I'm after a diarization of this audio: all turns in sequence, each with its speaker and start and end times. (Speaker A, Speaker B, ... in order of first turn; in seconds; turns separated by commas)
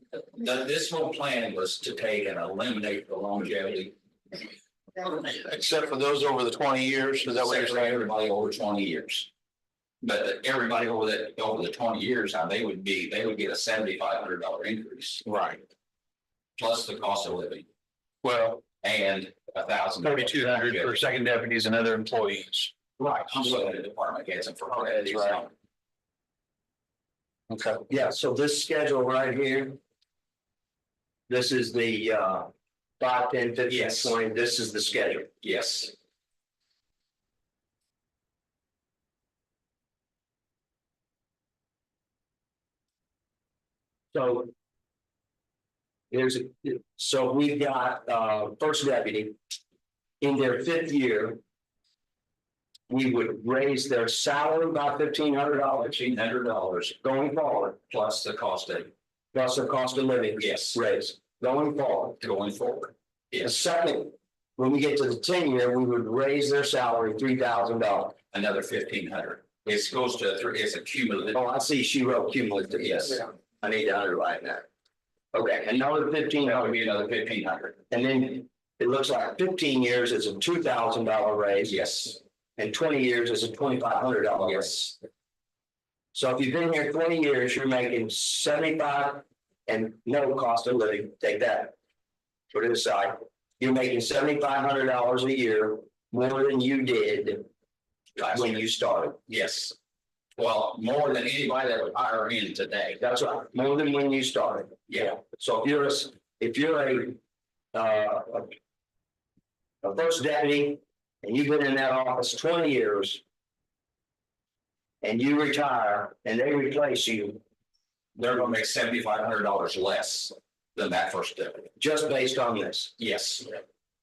Speaker A: 0.3-3.9, Speaker B: 5.0-8.0, Speaker A: 7.3-9.3, Speaker A: 10.0-15.2, Speaker B: 15.2-15.6, Speaker A: 16.6-17.6, Speaker B: 18.2-18.6, Speaker A: 18.8-21.1, Speaker B: 20.0-22.7, Speaker A: 23.0-25.5, Speaker B: 24.9-25.4, Speaker B: 27.5-27.8, Speaker C: 27.9-29.8, Speaker C: 31.3-35.3, Speaker A: 33.7-34.2, Speaker A: 35.4-35.9, Speaker C: 44.1-44.5, Speaker C: 46.1-49.4, Speaker C: 50.2-51.4, Speaker C: 52.9-56.0, Speaker A: 55.9-57.0, Speaker C: 57.0-57.8, Speaker A: 57.9-58.9, Speaker C: 59.3-62.2, Speaker A: 60.4-60.8, Speaker A: 62.2-63.5, Speaker C: 63.4-68.2, Speaker A: 68.3-71.4, Speaker C: 71.3-74.7, Speaker A: 72.8-73.2, Speaker C: 75.3-76.7, Speaker A: 76.4-77.8, Speaker C: 77.9-81.8, Speaker A: 81.7-82.2, Speaker C: 82.6-84.9, Speaker A: 84.3-84.8, Speaker C: 86.1-91.7, Speaker C: 92.5-97.5, Speaker A: 98.2-98.6, Speaker C: 98.3-99.2, Speaker A: 99.3-99.7, Speaker A: 100.3-103.0, Speaker C: 103.0-107.2, Speaker C: 107.7-108.5, Speaker C: 109.8-113.2, Speaker C: 115.0-117.4, Speaker A: 118.2-121.7, Speaker C: 121.8-122.9, Speaker A: 123.0-123.6